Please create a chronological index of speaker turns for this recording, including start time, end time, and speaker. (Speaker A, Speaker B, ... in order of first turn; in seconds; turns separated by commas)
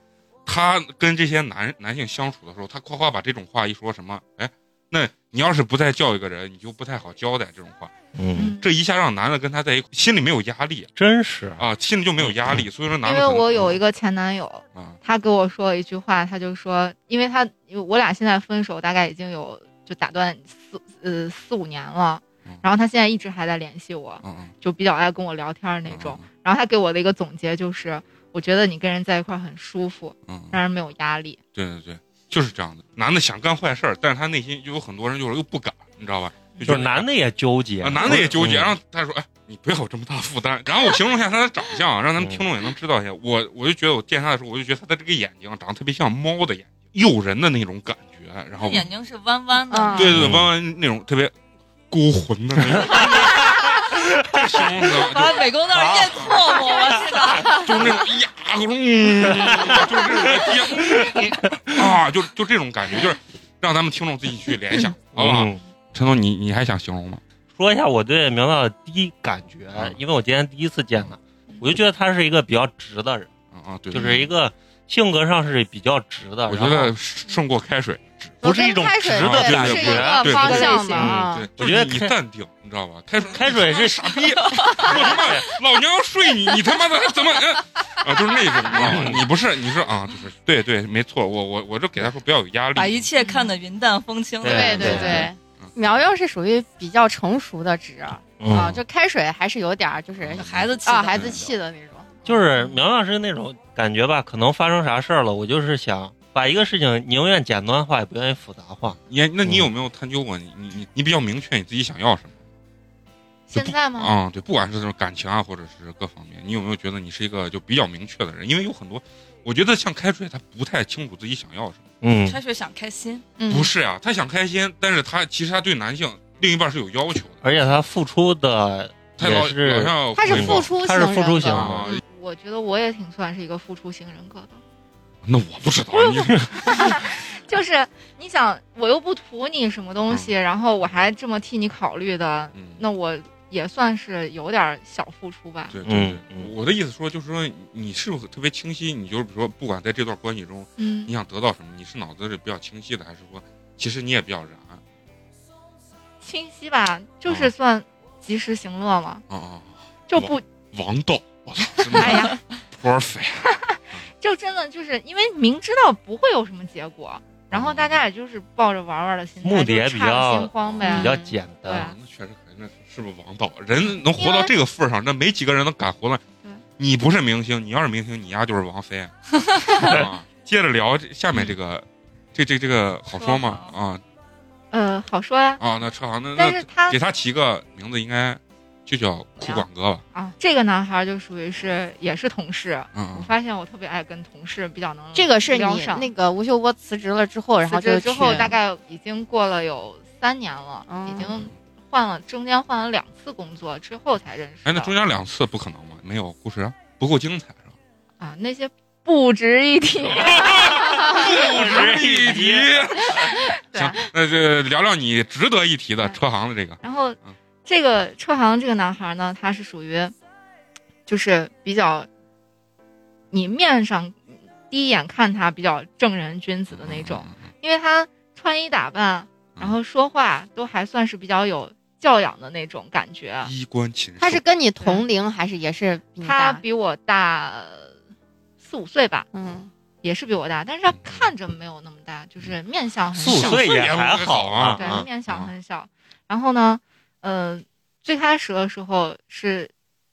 Speaker A: 0.5-7.9, Speaker B: 8.2-8.5, Speaker C: 8.3-8.7, Speaker A: 8.5-10.9, Speaker B: 10.9-11.6, Speaker A: 11.6-13.8, Speaker B: 12.2-12.6, Speaker C: 13.0-31.4, Speaker A: 24.2-24.5, Speaker A: 25.9-26.2, Speaker A: 30.3-30.6, Speaker A: 31.5-37.1, Speaker B: 36.6-38.7, Speaker A: 37.8-48.9, Speaker D: 48.5-50.2, Speaker C: 49.7-50.0, Speaker E: 49.7-50.1, Speaker A: 49.9-51.3, Speaker B: 50.1-50.5, Speaker A: 51.9-53.7, Speaker B: 52.7-53.1, Speaker B: 54.2-54.4, Speaker A: 54.2-55.5, Speaker D: 55.0-57.7, Speaker B: 55.9-56.3, Speaker A: 57.5-67.2, Speaker B: 59.2-61.8, Speaker B: 65.1-65.6, Speaker B: 67.5-73.3, Speaker A: 73.5-74.3, Speaker B: 73.9-76.9, Speaker A: 76.5-78.4, Speaker E: 78.4-81.5, Speaker B: 78.4-82.1, Speaker A: 79.1-93.1, Speaker C: 80.2-81.1, Speaker B: 83.3-85.5, Speaker D: 84.4-84.9, Speaker B: 88.7-89.2, Speaker D: 92.7-95.3, Speaker B: 94.4-95.3, Speaker E: 94.4-102.1, Speaker A: 94.8-95.7, Speaker B: 98.4-98.8, Speaker A: 100.2-101.4, Speaker D: 100.4-101.5, Speaker B: 102.2-109.7, Speaker A: 109.1-112.4, Speaker C: 113.5-114.1, Speaker A: 113.5-121.8, Speaker B: 122.0-122.4, Speaker D: 122.2-123.2, Speaker E: 123.4-123.7, Speaker A: 123.5-127.6, Speaker B: 127.4-131.9, Speaker A: 129.2-130.7, Speaker E: 130.1-131.9, Speaker A: 131.4-132.0, Speaker C: 132.0-134.6, Speaker A: 135.2-137.1, Speaker C: 135.9-145.8, Speaker A: 142.5-142.8, Speaker A: 145.7-154.8, Speaker B: 145.8-146.5, Speaker C: 150.8-151.1, Speaker C: 156.2-159.2, Speaker A: 159.3-164.0, Speaker C: 160.1-160.4, Speaker C: 161.9-162.4, Speaker C: 163.6-171.9, Speaker A: 167.5-168.0, Speaker B: 169.4-171.9, Speaker A: 170.6-171.1, Speaker E: 170.8-171.4, Speaker A: 171.6-176.2, Speaker C: 174.2-174.5, Speaker A: 176.8-184.0, Speaker D: 183.1-183.7, Speaker C: 184.7-185.6, Speaker A: 185.6-190.0, Speaker C: 186.3-187.0, Speaker C: 189.4-196.1, Speaker A: 192.9-193.3, Speaker E: 195.1-198.5, Speaker C: 197.7-204.9, Speaker E: 200.9-201.3, Speaker A: 201.2-201.5, Speaker A: 204.6-207.7, Speaker C: 208.2-211.5, Speaker A: 210.0-216.8, Speaker B: 211.1-213.0, Speaker C: 213.1-214.0, Speaker C: 216.8-220.1, Speaker C: 221.1-222.1, Speaker C: 223.3-233.5, Speaker A: 226.7-227.4, Speaker A: 233.4-234.4, Speaker E: 234.2-236.6, Speaker C: 234.8-235.0, Speaker C: 236.2-237.9, Speaker C: 238.6-239.3, Speaker E: 239.3-239.7, Speaker C: 240.0-243.6, Speaker A: 240.9-241.3, Speaker B: 243.2-245.1, Speaker A: 243.2-245.5, Speaker C: 244.8-249.7